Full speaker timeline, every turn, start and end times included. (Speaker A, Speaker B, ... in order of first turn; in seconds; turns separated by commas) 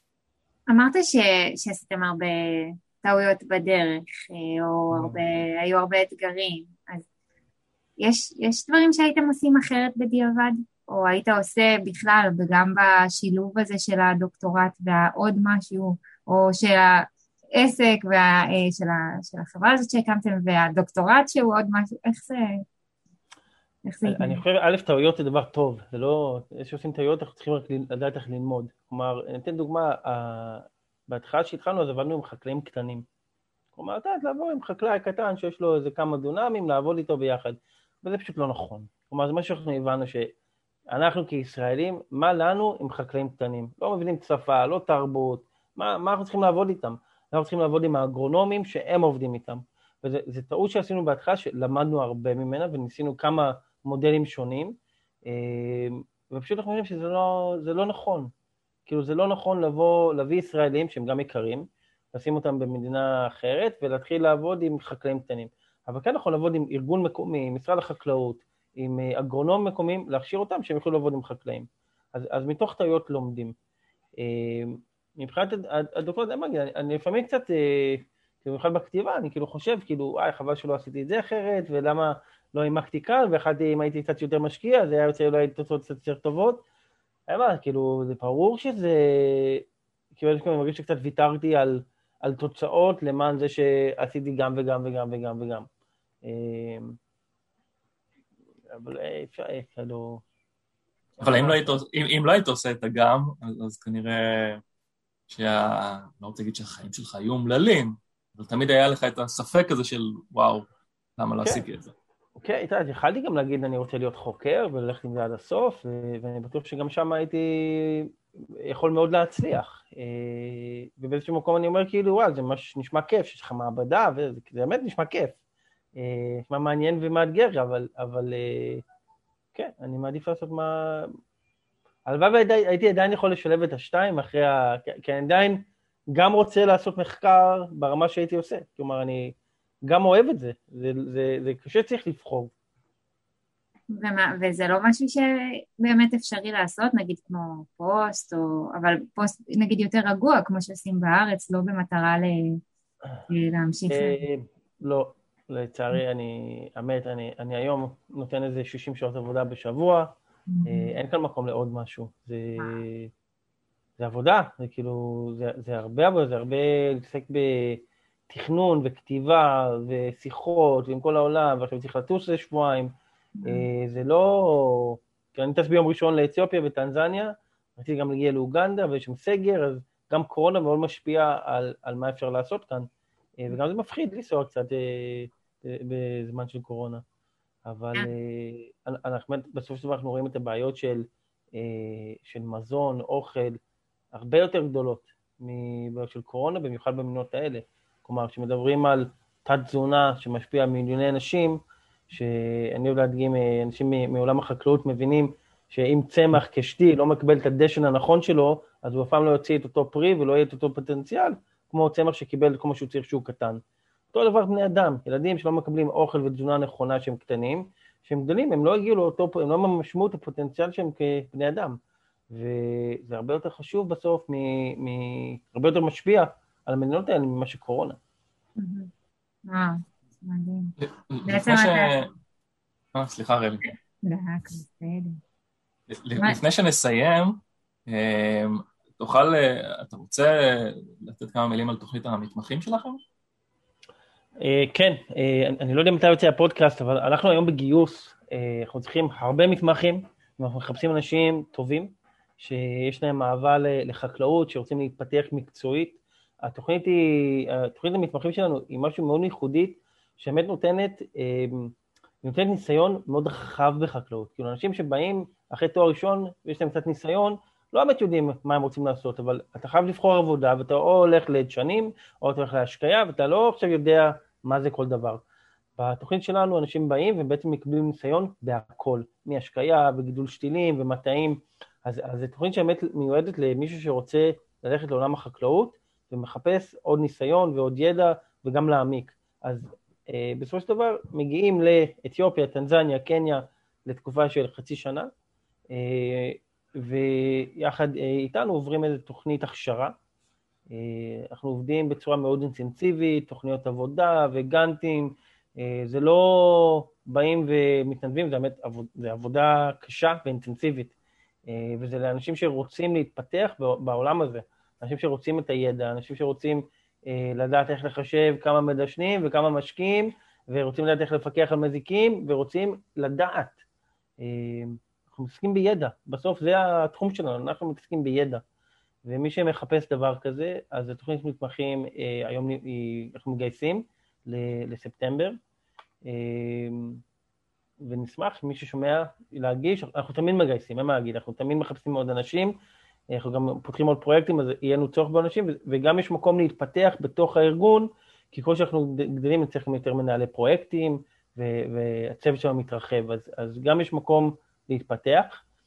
Speaker A: 0.7-7.0, Speaker B: 4.9-5.2, Speaker A: 8.0-22.6, Speaker A: 23.8-24.4, Speaker B: 24.0-33.0, Speaker B: 33.7-40.3, Speaker B: 40.9-54.8, Speaker B: 55.3-58.3, Speaker B: 58.9-73.5, Speaker B: 74.2-86.6, Speaker B: 87.3-89.6, Speaker B: 90.1-95.7, Speaker B: 96.2-97.0, Speaker B: 98.7-100.2, Speaker B: 101.2-101.8, Speaker C: 101.2-104.6, Speaker C: 105.3-110.7, Speaker C: 111.2-111.9, Speaker B: 112.4-118.1, Speaker B: 118.6-125.4, Speaker B: 126.0-128.8, Speaker B: 129.5-131.1, Speaker B: 132.1-139.3, Speaker B: 139.9-142.5, Speaker A: 143.9-152.6, Speaker A: 153.3-154.2, Speaker B: 153.9-160.1, Speaker A: 160.5-160.9, Speaker B: 160.6-163.1, Speaker B: 164.0-172.9, Speaker A: 173.4-173.7, Speaker B: 173.4-182.9, Speaker B: 183.4-187.0, Speaker B: 187.7-193.6, Speaker B: 194.1-201.6, Speaker B: 202.1-213.6, Speaker B: 214.1-221.8, Speaker B: 222.3-228.0, Speaker A: 228.6-228.9, Speaker A: 229.5-232.0, Speaker C: 230.8-232.1, Speaker C: 232.9-233.6, Speaker A: 234.0-235.2, Speaker C: 235.9-243.0, Speaker B: 244.4-275.2, Speaker B: 275.8-295.1, Speaker B: 295.7-299.9, Speaker B: 300.7-310.9, Speaker B: 311.5-323.6, Speaker B: 324.2-328.4, Speaker B: 329.0-335.4, Speaker B: 336.1-337.0, Speaker B: 337.8-342.5, Speaker B: 343.1-355.4